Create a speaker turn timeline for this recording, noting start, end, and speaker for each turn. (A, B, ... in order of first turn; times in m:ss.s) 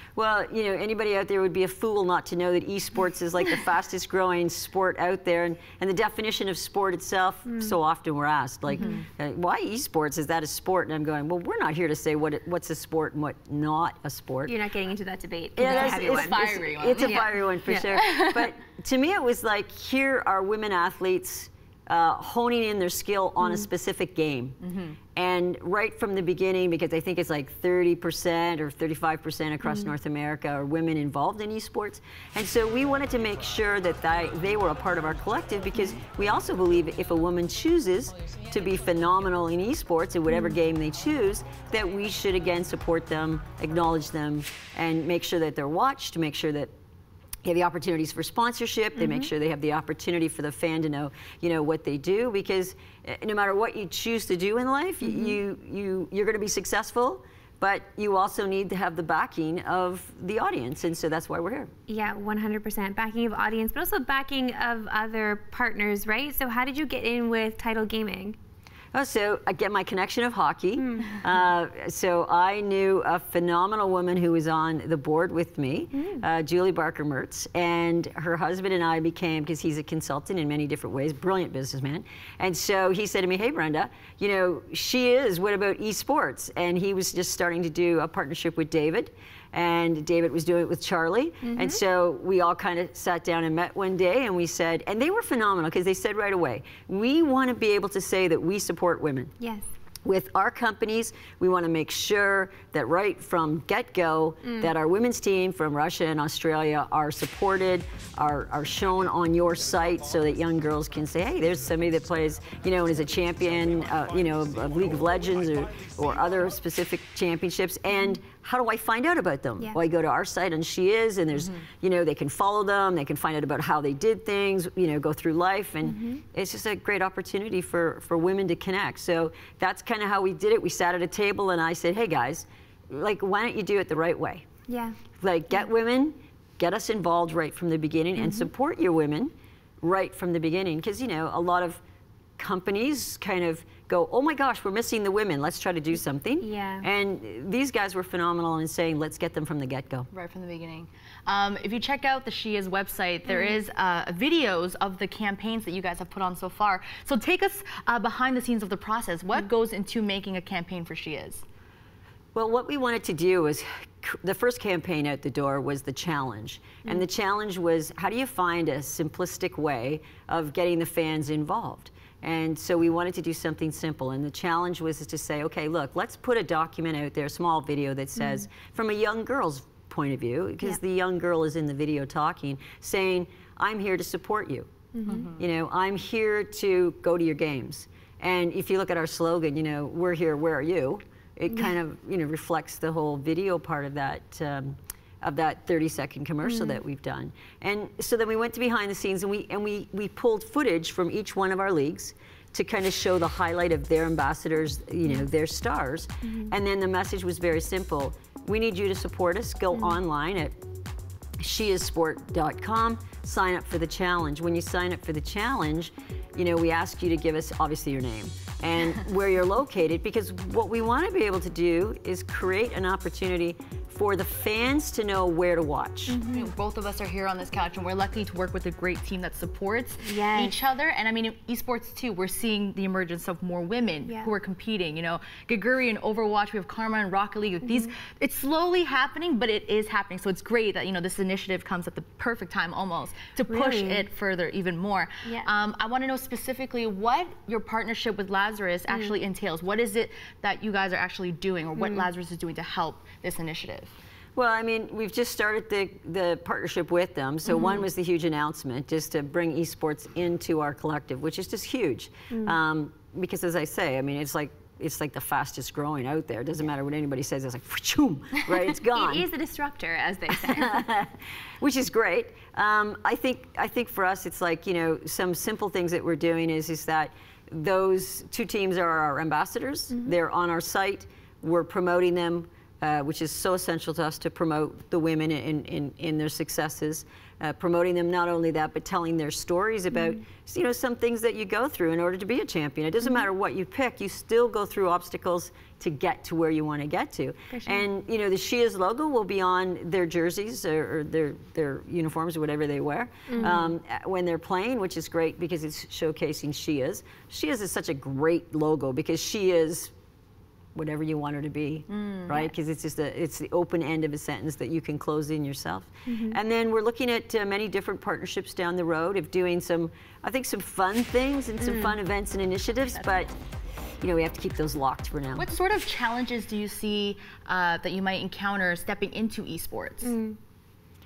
0:00.2-0:14.5 A
0:07.5-0:07.7 B
0:08.7-0:09.0 C
0:14.4-0:18.0 B
0:15.6-0:24.6 A
0:15.6-0:17.3 C
0:17.9-0:18.5 C
0:23.4-0:23.7 B
0:24.6-0:25.0 C
0:25.1-0:46.7 A
0:29.6-0:29.9 B
0:35.7-0:36.0 B
0:40.3-0:40.6 B
0:47.4-1:01.7 A
0:48.9-0:49.3 B
0:55.0-0:55.4 B
1:01.9-1:08.4 B
1:08.9-1:39.3 A
1:10.8-1:11.2 B
1:15.9-1:16.2 B
1:31.4-1:31.8 B
1:39.4-1:39.7 B
1:40.0-2:14.4 A
1:44.4-1:44.7 B
1:57.9-1:58.2 B
2:05.8-2:06.2 B
2:14.7-2:15.0 B
2:15.2-2:21.8 A
2:18.2-2:18.5 B
2:22.4-2:30.1 A
2:26.4-2:26.8 B
2:30.1-2:41.4 C
2:33.2-2:33.6 B
2:42.3-3:04.7 A
3:04.9-3:05.3 B
3:05.1-3:05.4 C
3:05.3-3:30.6 A
3:16.4-3:16.8 B
3:26.2-3:26.5 B
3:31.4-3:46.2 A
3:46.1-3:46.5 B
3:46.3-4:13.9 C
3:50.0-3:50.6 B
3:57.6-3:57.9 B
4:03.5-4:04.1 B
4:05.2-4:05.5 B
4:08.9-4:09.2 B
4:11.8-4:12.1 B
4:14.3-4:29.2 A
4:17.5-4:17.8 B
4:22.3-4:22.6 B
4:28.9-4:30.8 B
4:30.4-5:09.9 A
4:57.5-4:57.8 B
5:03.3-5:03.8 B
5:10.7-5:23.3 A
5:11.9-5:12.3 C
5:16.0-5:16.4 B
5:21.6-5:22.0 B
5:24.0-5:25.4 A
5:25.3-5:30.1 C
5:30.0-5:30.4 B